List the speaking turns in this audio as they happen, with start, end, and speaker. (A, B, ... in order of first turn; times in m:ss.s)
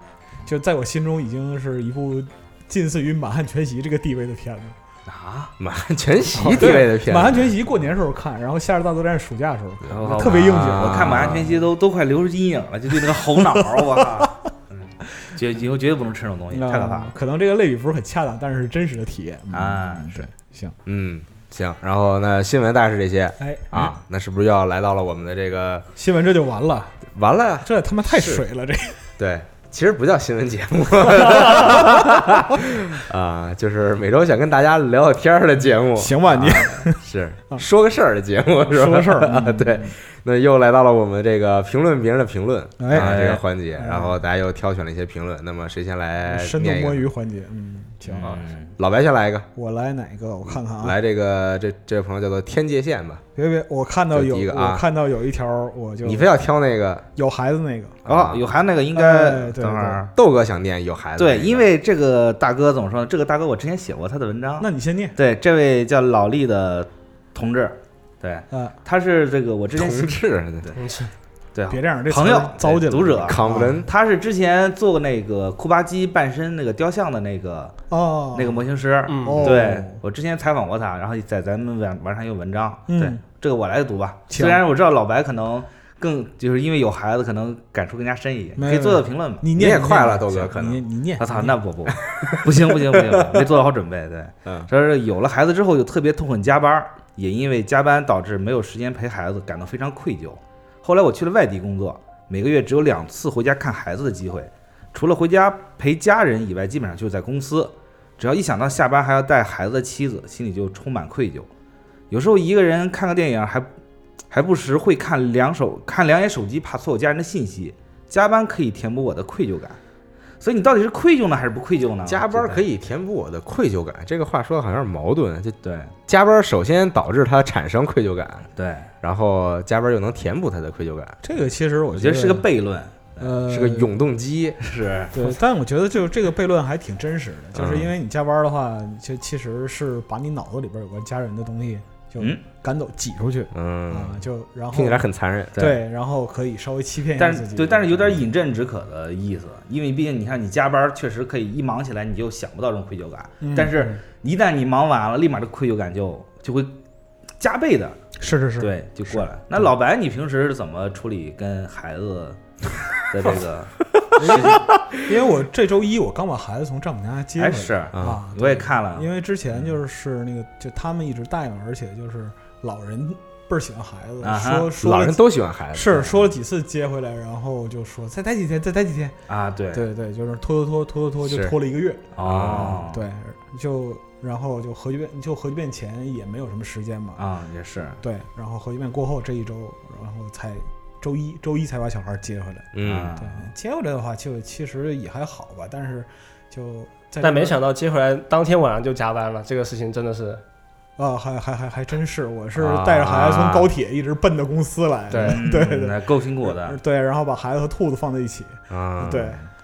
0:00.4-0:04.8 A
0:05.1-0:05.5 B
0:05.6-0:07.4 C
0:06.3-0:11.6 A
0:09.9-0:11.6 C
0:09.9-0:17.1 B
0:16.5-0:20.8 A
0:19.5-0:20.3 B
0:20.8-0:25.9 C
0:23.4-0:23.9 A
0:26.0-0:27.0 A
0:27.1-0:28.4 C
0:27.6-0:29.0 A
0:29.2-0:47.1 C
0:36.0-0:37.6 A
0:38.7-0:39.9 A
0:42.8-0:43.1 A
0:42.9-0:43.4 B
0:43.8-0:44.2 A
0:46.2-0:48.4 A
0:48.1-0:48.7 B
0:48.1-0:49.5 C
0:49.6-0:51.0 A
0:50.4-0:53.2 C
0:53.4-0:56.3 A
0:54.1-0:54.8 C
0:56.0-0:57.0 C
0:57.2-0:58.0 A
0:58.0-0:58.4 C
0:58.1-1:00.1 B
0:58.9-1:00.0 A
1:00.1-1:01.7 C
1:01.2-1:10.8 B
1:04.6-1:05.2 A
1:09.7-1:10.7 C
1:10.7-1:11.1 D
1:11.5-1:17.8 B
1:11.7-1:13.8 A
1:13.2-1:13.9 C
1:17.9-1:18.6 A
1:18.3-1:29.5 B
1:19.1-1:19.5 D
1:19.2-1:20.0 A
1:22.9-1:23.2 A
1:24.3-1:24.6 A
1:28.6-1:31.5 A
1:29.5-1:30.9 C
1:31.2-1:51.5 B
1:31.9-1:33.5 C
1:52.1-1:53.7 B
1:54.3-1:59.8 B
2:00.4-2:02.6 B
2:02.0-2:11.2 C
2:05.6-2:05.9 B
2:08.6-2:08.9 B
2:11.2-2:12.4 A
2:11.9-2:13.3 B
2:13.2-2:14.0 A
2:13.4-2:14.6 C
2:14.6-2:15.2 B
2:15.1-2:28.2 A
2:17.5-2:17.9 C
2:23.5-2:25.6 C
2:27.2-2:36.8 B
2:33.4-2:33.9 A
2:37.4-2:38.0 B
2:38.2-2:39.2 A
2:38.6-2:42.4 B
2:43.1-2:44.6 B
2:44.0-2:44.9 C
2:44.2-2:59.1 A
2:47.4-2:49.7 B
2:47.9-2:48.2 C
2:54.2-2:54.7 B
2:54.8-2:56.1 C
2:59.3-2:59.8 B
2:59.7-3:07.2 A
3:02.2-3:03.0 B
3:02.2-3:02.8 C
3:07.2-3:08.0 B
3:08.0-3:17.6 A
3:12.7-3:13.1 C
3:12.8-3:13.5 B
3:17.2-3:20.4 D
3:21.0-3:29.4 A
3:22.6-3:23.7 C
3:23.0-3:23.4 B
3:25.1-3:26.8 B
3:25.1-3:25.4 D
3:28.7-3:29.4 C